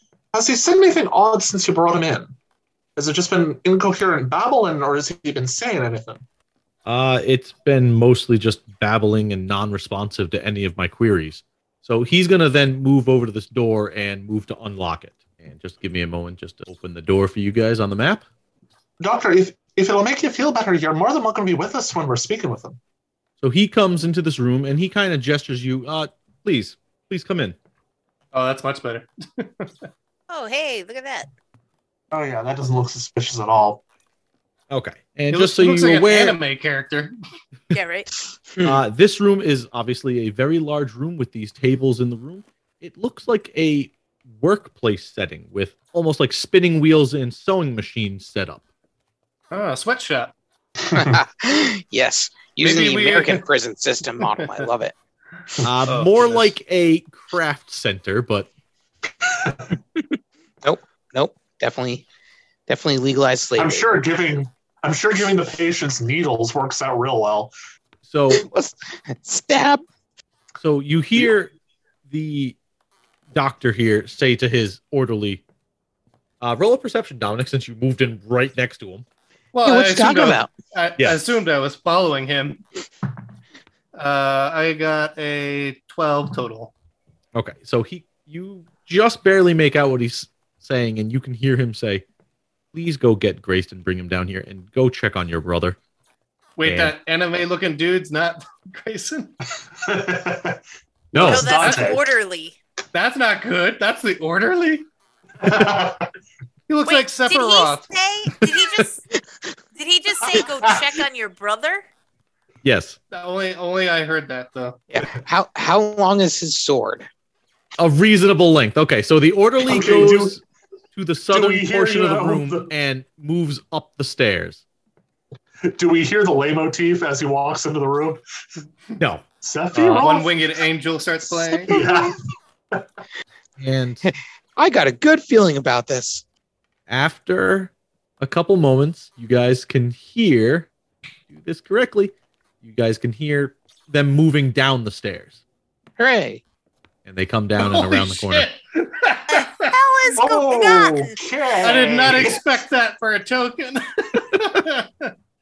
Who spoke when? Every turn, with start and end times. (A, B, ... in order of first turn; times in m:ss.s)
0:00.3-0:02.3 A
0:03.0-0:06.2 A
0:06.8-0:18.2 B
0:19.0-0:22.8 A
0:23.4-0:27.6 B
0:28.3-0:29.7 C
0:30.3-0:31.3 D
0:32.1-0:33.8 A
0:34.7-0:36.4 B
0:35.3-0:37.1 C
0:37.7-0:38.1 D
0:38.5-0:38.8 E
0:38.6-0:48.6 B
0:49.5-0:50.3 C
0:50.9-0:51.2 A
0:50.9-0:54.9 E
0:52.6-0:53.4 C
0:54.2-0:54.6 C
0:55.6-0:58.5 B
0:55.8-0:56.5 C
0:59.2-0:59.7 A
1:00.6-1:02.0 E
1:02.7-1:04.0 E
1:03.6-1:07.5 A
1:08.0-1:08.4 B
1:08.3-1:09.8 E
1:10.6-1:11.5 B
1:12.1-1:12.6 B
1:13.3-1:15.4 B
1:16.4-1:19.0 B
1:19.5-1:22.6 C
1:19.6-1:20.5 E
1:23.9-1:26.7 C
1:27.3-1:32.0 B
1:32.7-1:35.8 B
1:36.6-1:39.3 C
1:36.6-1:36.9 B
1:39.8-1:42.0 A
1:41.1-1:41.5 B
1:41.2-1:42.6 D
1:41.5-1:41.9 C
1:42.9-1:44.9 C
1:45.4-1:46.1 A
1:46.7-1:47.8 C
1:46.8-1:49.0 D
1:49.7-1:51.8 D
1:50.3-1:50.8 A
1:52.6-1:53.0 B
1:53.1-1:54.8 C
1:54.9-1:57.1 E
1:57.8-2:00.4 B
1:59.6-2:00.4 A
2:00.9-2:04.6 B
2:01.3-2:02.7 A
2:05.6-2:08.2 A
2:09.0-2:09.2 B
2:09.4-2:10.3 A
2:09.7-2:11.7 C
2:11.7-2:12.2 A
2:11.7-2:11.9 E
2:13.6-2:14.0 B
2:14.1-2:16.2 E
2:16.9-2:20.7 B
2:21.3-2:25.4 B
2:26.0-2:26.4 E
2:27.0-2:28.5 B
2:27.6-2:29.7 C
2:29.3-2:31.2 D
2:30.1-2:32.4 A
2:31.6-2:35.1 C